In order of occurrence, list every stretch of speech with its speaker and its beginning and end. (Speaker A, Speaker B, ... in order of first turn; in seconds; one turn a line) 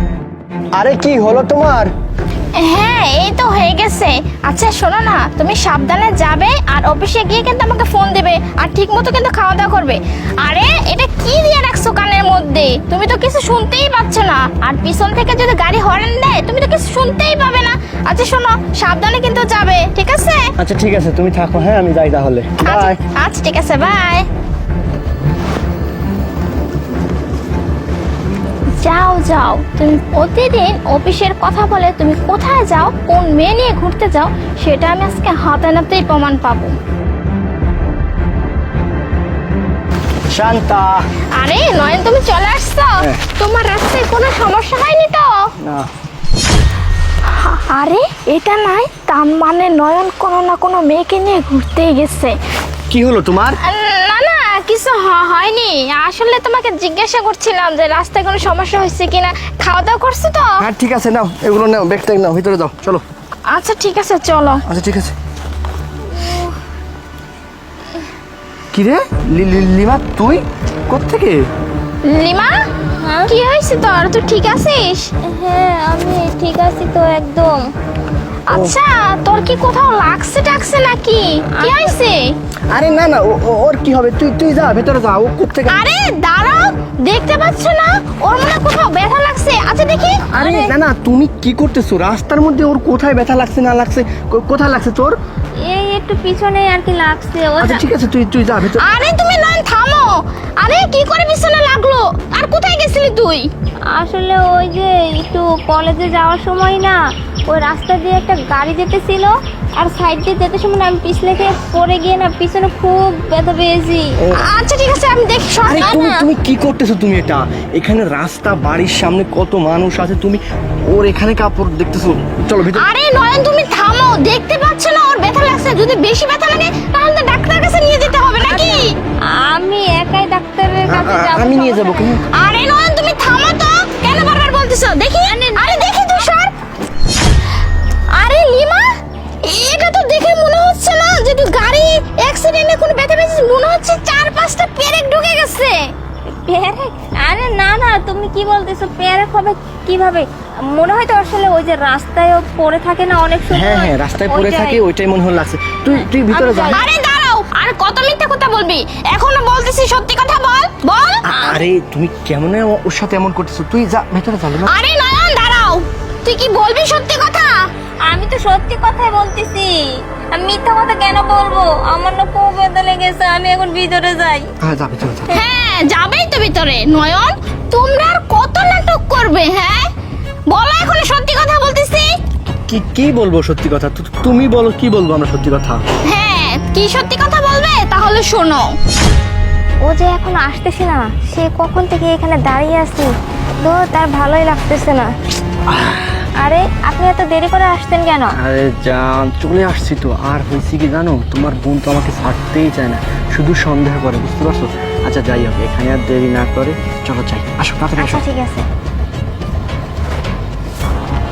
Speaker A: 0.7-1.9
Speaker B: 2.5-20.5
Speaker A: 20.6-23.0
Speaker B: 22.6-24.3
Speaker B: 28.8-36.8
Speaker A: 40.3-41.0
Speaker B: 41.3-45.5
Speaker A: 45.6-45.9
Speaker B: 47.3-52.4
Speaker A: 52.9-53.6
Speaker B: 53.6-60.6
Speaker A: 60.6-63.0
Speaker B: 63.5-64.6
Speaker A: 64.7-65.1
Speaker C: 66.1-66.5
Speaker A: 68.7-71.5
Speaker B: 72.0-72.6
Speaker C: 73.0-73.3
Speaker B: 73.3-75.1
Speaker C: 75.3-77.7
Speaker B: 78.5-82.3
Speaker A: 78.5-78.8
Speaker C: 81.5-82.0
Speaker A: 82.7-85.8
Speaker B: 85.7-90.7
Speaker A: 90.3-95.2
Speaker C: 95.7-97.8
Speaker A: 97.6-98.9
Speaker B: 98.7-103.5
Speaker C: 103.9-114.2
Speaker A: 114.2-114.4
Speaker B: 114.4-116.1
Speaker A: 115.7-122.9
Speaker B: 122.7-128.9
Speaker C: 129.3-132.2
Speaker A: 130.8-132.2
Speaker B: 132.3-136.5
Speaker C: 135.2-135.8
Speaker B: 138.1-138.9
Speaker B: 139.4-145.8
Speaker C: 146.4-154.8
Speaker A: 153.5-156.8
Speaker C: 156.1-156.8
Speaker B: 156.7-161.3
Speaker A: 161.2-164.7
Speaker C: 161.3-161.6
Speaker B: 164.7-167.5
Speaker C: 168.1-169.8
Speaker C: 170.3-174.5
Speaker A: 174.6-175.3
Speaker B: 175.3-179.9
Speaker B: 180.5-182.1
Speaker A: 182.6-185.8
Speaker B: 186.1-188.7
Speaker C: 189.8-195.1
Speaker A: 195.7-196.1
Speaker C: 196.4-198.4
Speaker A: 198.3-208.2
Speaker C: 208.0-208.7